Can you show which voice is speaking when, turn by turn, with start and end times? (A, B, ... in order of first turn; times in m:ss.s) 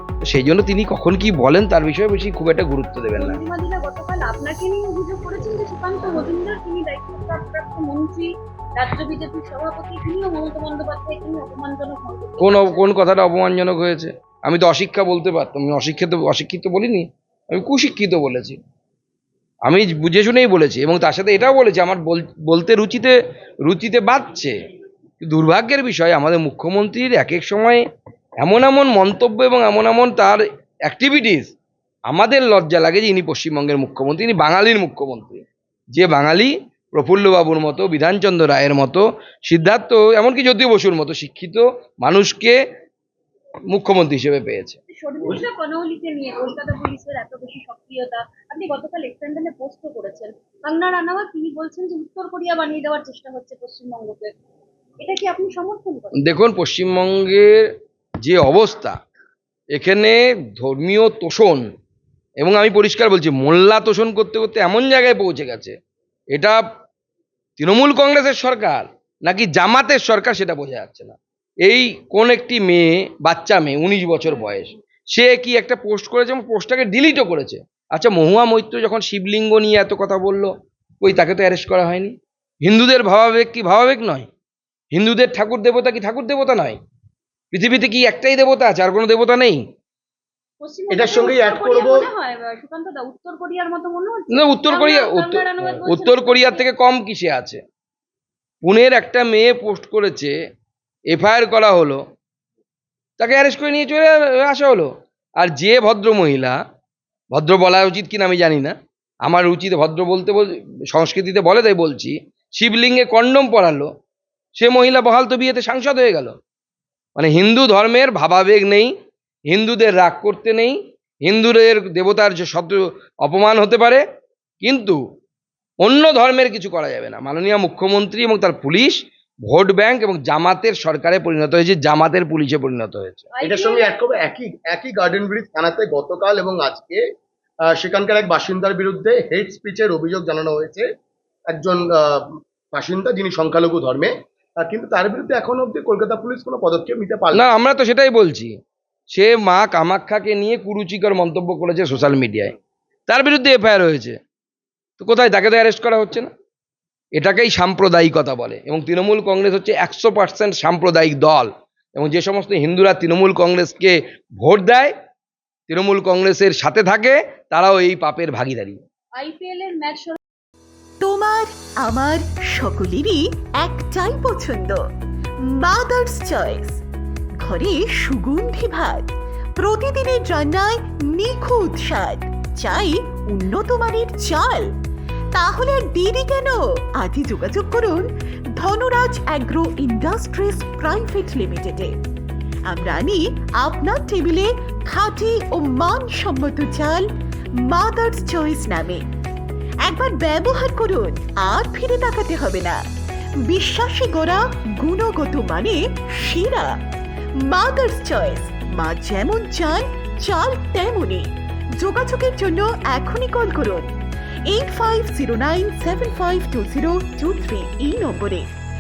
0:00.2-0:03.4 A
0:03.2-0:12.9 B
0:12.4-0:18.6 A
0:19.7-0:23.2 A
0:23.7-0:24.6 A
0:25.2-0:27.8 A
0:28.4-0:31.5 A
0:32.1-0:35.4 A
0:35.9-0:42.6 A
0:43.7-0:44.8 A
0:44.9-0:54.3 B
0:55.0-0:56.2 B
0:56.2-0:57.7 A
0:58.2-0:59.0 A
0:59.7-1:01.7 A
1:02.4-1:05.8 A
1:06.3-1:06.6 A
1:07.6-1:24.3 A
1:24.9-1:26.8 A
1:27.5-1:29.6 A
1:30.6-1:36.7 B
1:30.9-1:32.1 C
1:34.3-1:37.6 A
1:38.6-1:40.4 A
1:41.1-1:42.0 A
1:43.2-1:46.6 A
1:47.3-1:48.8 A
1:49.3-1:53.9 A
1:54.6-1:56.4 A
1:57.2-1:58.9 A
1:59.5-2:04.0 A
2:04.6-2:05.0 A
2:05.8-2:13.3 A
2:13.4-2:14.0 B
2:13.4-2:17.0 C
2:17.8-2:20.9 C
2:21.5-2:27.4 C
2:27.3-2:28.5 A
2:29.1-2:32.5 A
2:33.1-2:34.2 A
2:35.0-2:36.3 A
2:37.2-2:44.9 A
2:45.7-2:48.8 A
2:49.2-2:50.2 B
2:51.0-2:54.8 D
2:55.6-2:56.8 D
2:57.4-2:59.1 D
2:59.6-3:04.7 D
3:05.3-3:08.1 D
3:08.6-3:11.9 D
3:12.7-3:17.1 D
3:17.7-3:19.0 D
3:19.8-3:22.8 D
3:23.5-3:26.7 D
3:27.5-3:33.9 D
3:34.5-3:38.5 D